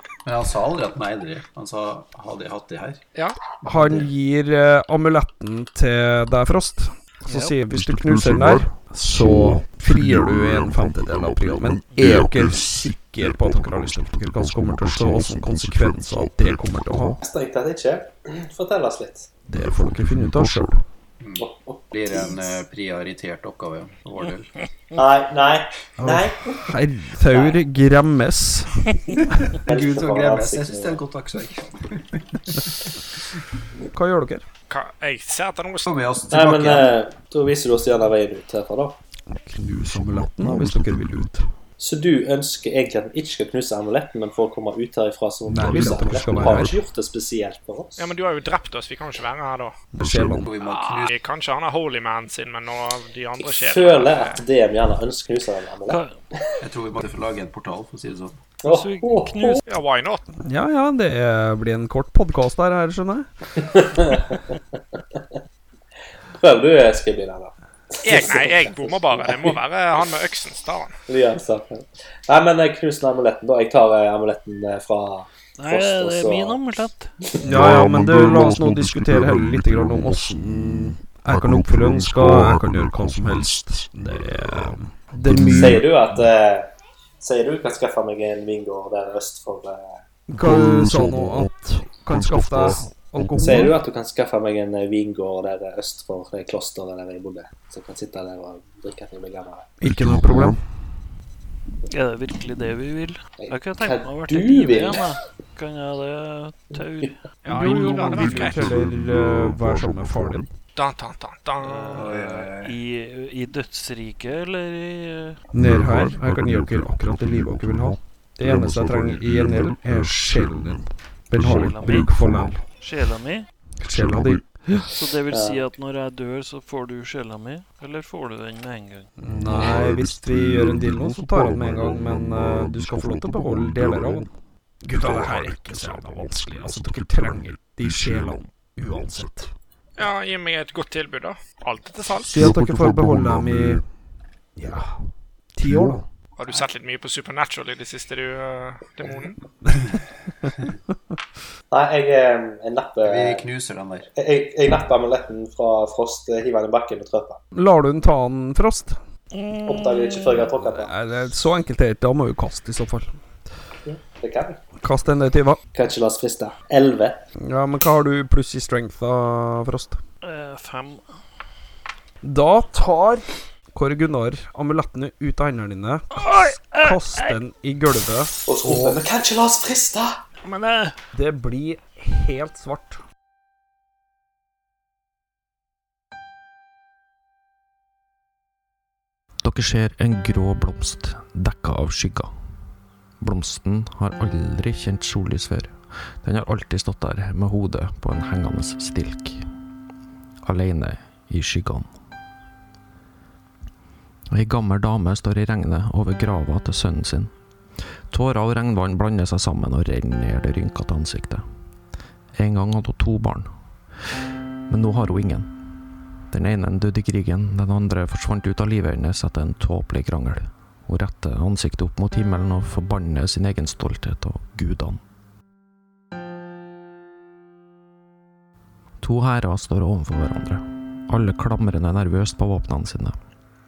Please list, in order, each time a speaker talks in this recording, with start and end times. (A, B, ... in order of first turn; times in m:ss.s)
0:00.2-0:03.0 A
0:03.6-0:17.2 B
0:03.6-0:04.0 A
0:07.2-0:07.6 C
0:17.2-0:19.3 D
0:19.5-0:20.8 B
0:21.2-0:24.5 A
0:21.4-0:22.4 D
0:24.9-0:26.6 D
0:26.0-0:29.6 B
0:27.2-0:27.6 D
0:29.6-0:31.0 D
0:29.6-0:32.7 A
0:33.9-0:34.4 B
0:34.7-0:35.9 E
0:35.8-0:36.9 A
0:36.3-0:39.0 D
0:39.3-0:41.5 B
0:41.8-0:48.1 D
0:45.5-0:46.8 B
0:48.0-0:49.7 E
0:49.9-0:50.5 B
0:50.2-0:51.1 A
0:50.6-0:54.4 E
0:53.4-0:56.5 D
0:55.9-0:56.2 C
0:56.6-0:58.4 A
0:58.6-0:59.6 D
0:58.6-0:59.6 C
0:59.6-1:00.2 E
1:00.4-1:03.3 B
1:03.6-1:04.6 D
1:06.4-1:09.6 D
1:08.0-1:10.9 E
1:11.1-1:16.6 D
1:15.6-1:17.1 C
1:17.4-1:25.8 B
1:25.5-1:30.0 D
1:30.3-1:33.7 B
1:33.4-1:39.7 D
1:39.8-1:40.6 B
1:41.9-1:47.2 C
1:43.4-1:45.2 D
1:47.4-1:48.7 E
1:47.5-1:50.5 B
1:50.8-1:52.2 E
1:51.6-1:55.4 C
1:51.9-1:52.8 A
1:55.5-2:02.6 B
2:01.5-2:03.5 C
2:03.8-2:04.9 B
2:04.9-2:09.1 C
2:05.3-2:05.7 D
2:09.2-2:14.3 B
2:14.8-2:19.5 B
2:20.0-2:22.4 E
2:22.3-2:23.9 B
2:24.6-2:25.0 B
2:25.5-2:26.1 B
2:26.4-2:29.4 E
2:31.7-2:33.4 D
2:33.0-2:34.1 A
2:34.2-2:37.4 D
2:37.5-2:39.0 B
2:39.3-2:40.4 C
2:39.6-2:40.9 D
2:40.5-2:43.1 B
2:43.8-2:44.6 D
2:44.8-2:45.6 B
2:45.7-2:47.2 D
2:47.4-2:50.0 B
2:50.2-2:51.1 C
2:52.2-2:59.0 B
2:56.1-2:57.4 C
2:58.5-3:00.2 D
3:00.4-3:01.0 C
3:01.1-3:03.0 B
3:09.4-3:12.3 F
3:13.2-3:19.4 F
3:20.4-3:21.9 F
3:24.3-3:27.3 F
3:28.1-3:31.4 F
3:32.4-3:33.5 F
3:34.7-3:35.5 F
3:36.3-3:45.0 F
3:49.0-3:53.2 F